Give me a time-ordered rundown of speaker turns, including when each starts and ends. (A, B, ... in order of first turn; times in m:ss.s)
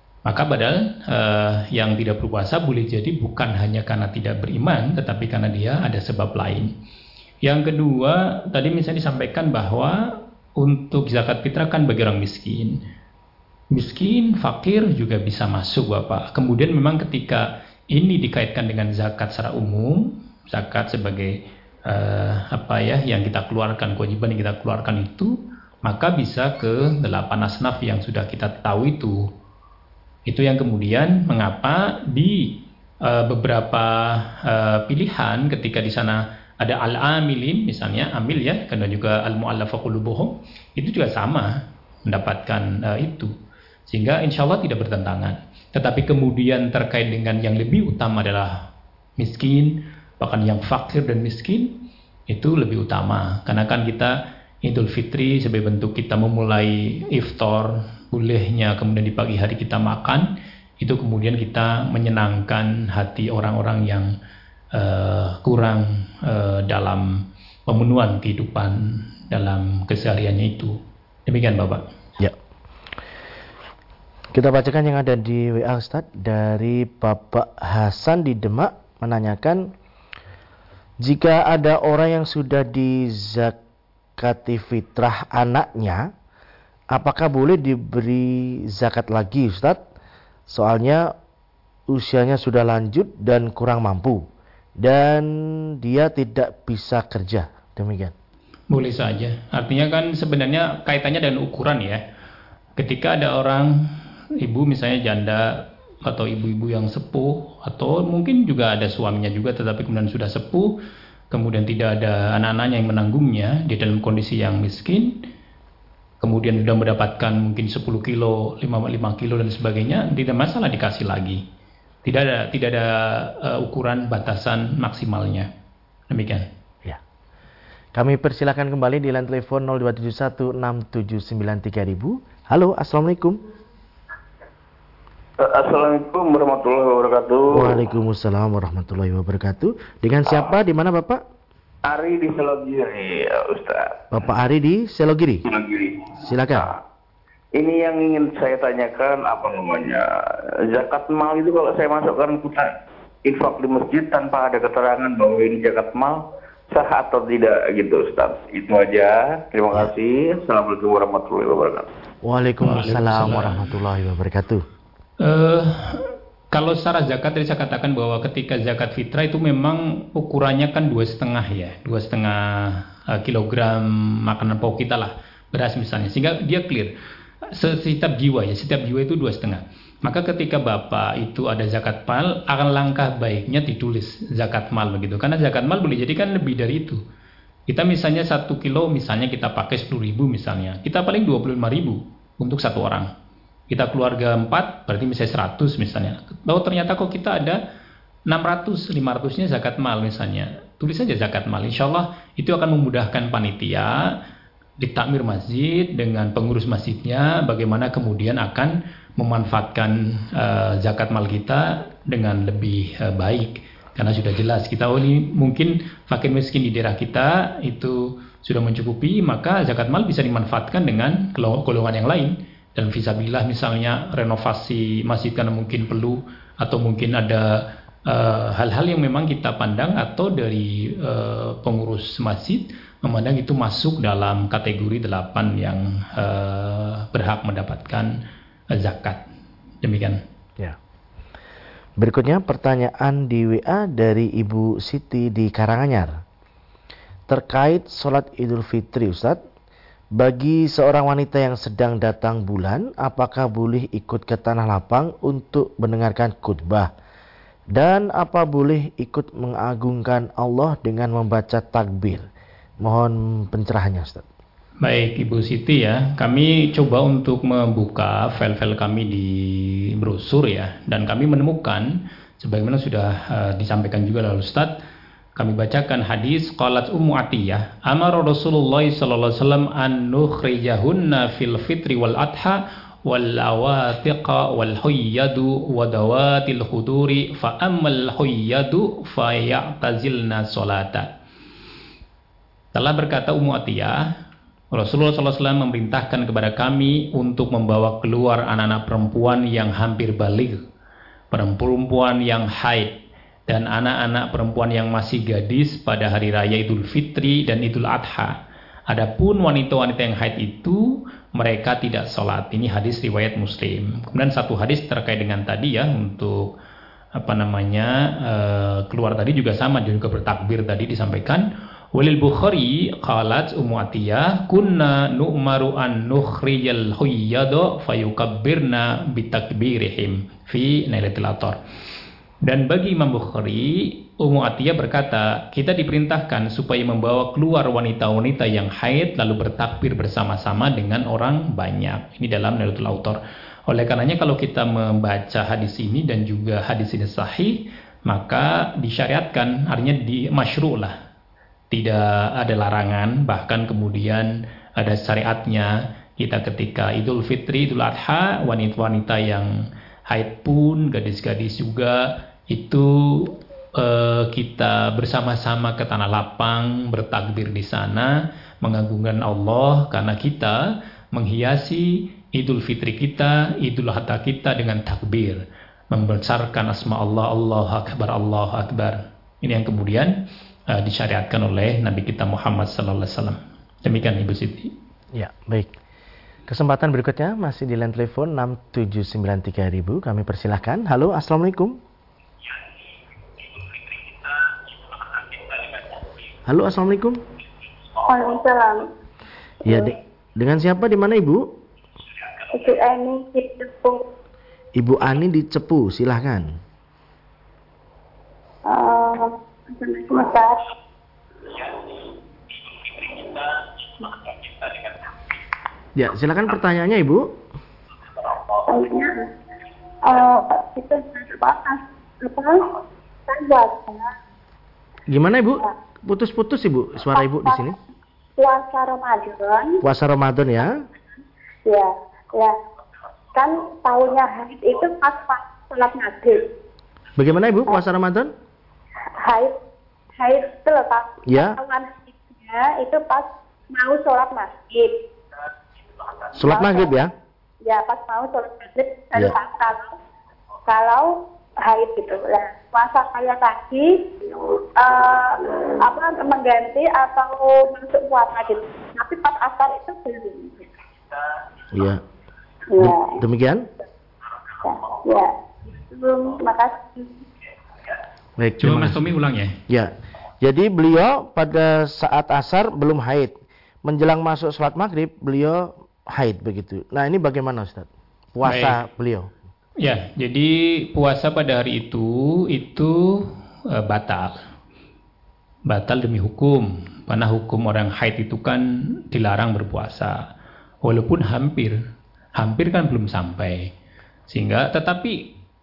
0:00.2-0:06.7 A
0:07.4-0:10.0 A
0:10.6-0:12.8 A
0:13.7-0:21.4 A
0:21.9-0:29.2 A
0:30.3-0:41.5 A
0:42.0-0:43.3 A
0:43.9-0:48.5 A
0:49.2-0:51.7 A
0:52.3-0:54.1 A
0:54.6-1:00.3 A
1:00.8-1:04.1 A
1:04.7-1:11.8 A
1:14.3-1:19.7 B
1:21.0-1:23.6 B
1:24.2-1:26.0 B
1:26.9-1:29.8 B
1:30.5-1:31.1 B
1:31.9-1:34.3 B
1:34.8-1:38.1 B
1:38.7-1:42.0 A
1:42.8-1:43.8 A
1:44.4-1:50.7 A
1:51.3-1:55.2 A
1:56.2-2:01.4 A
2:02.0-2:05.5 A
2:06.1-2:06.4 A
2:07.9-2:13.4 B
2:15.4-2:17.8 C
2:17.5-2:21.2 B
2:21.8-2:24.0 C
2:24.1-2:25.4 B
2:25.4-2:26.7 C
2:26.2-2:26.7 B
2:27.5-2:41.9 C
2:42.2-2:44.6 B
2:42.6-2:43.7 A
2:45.2-2:56.9 A
2:57.5-3:07.0 A
3:07.7-3:13.1 A
3:13.7-3:17.6 A
3:18.3-3:24.2 A
3:24.8-3:58.2 A
3:58.7-3:59.2 A
3:59.8-4:00.2 A
4:02.0-4:06.2 B
4:07.3-4:09.4 B
4:10.1-4:16.9 B
4:17.7-4:22.3 B
4:22.8-4:24.2 B
4:24.8-4:34.7 A
4:35.4-4:51.1 A
4:52.7-4:54.0 A
4:54.7-5:00.6 A
5:01.3-5:02.9 A
5:03.5-5:08.3 A
5:08.9-5:16.5 A
5:17.2-5:31.6 A
5:32.4-5:50.9 A
5:51.7-5:59.5 A
6:00.1-6:10.6 A
6:11.1-6:20.2 A
6:20.7-6:24.7 A
6:25.1-6:25.7 B
6:26.5-6:31.8 B
6:36.5-6:37.2 B
6:38.0-6:38.9 D
6:39.6-6:41.5 B
6:42.5-6:44.0 D
6:44.8-6:46.5 B
6:48.7-6:50.6 D
6:55.9-6:57.3 B
6:58.7-6:59.3 D
7:00.0-7:02.7 D
7:03.3-7:04.1 D
7:05.1-7:07.8 B
7:07.1-7:07.6 D
7:08.4-7:09.8 D
7:09.8-7:10.8 B
7:11.6-7:12.6 D
7:13.3-7:16.5 D
7:17.2-7:18.3 B
7:19.2-7:19.5 D
7:20.2-7:25.0 D
7:21.3-7:21.6 B
7:26.3-7:27.1 B
7:26.4-7:26.9 D
7:27.6-7:29.9 D
7:30.7-7:34.0 D
7:34.8-7:40.7 D
7:41.7-7:42.0 B
7:42.7-7:43.2 D
7:42.8-7:43.7 B
7:44.6-7:45.3 D
7:45.9-7:47.2 D
7:48.4-7:49.1 B
7:48.6-7:49.6 A
7:49.7-7:59.3 B
7:58.4-7:58.8 A
7:59.8-8:04.4 A
8:05.7-8:10.2 A
8:10.8-8:11.8 A
8:12.4-8:13.7 A
8:14.3-8:15.2 A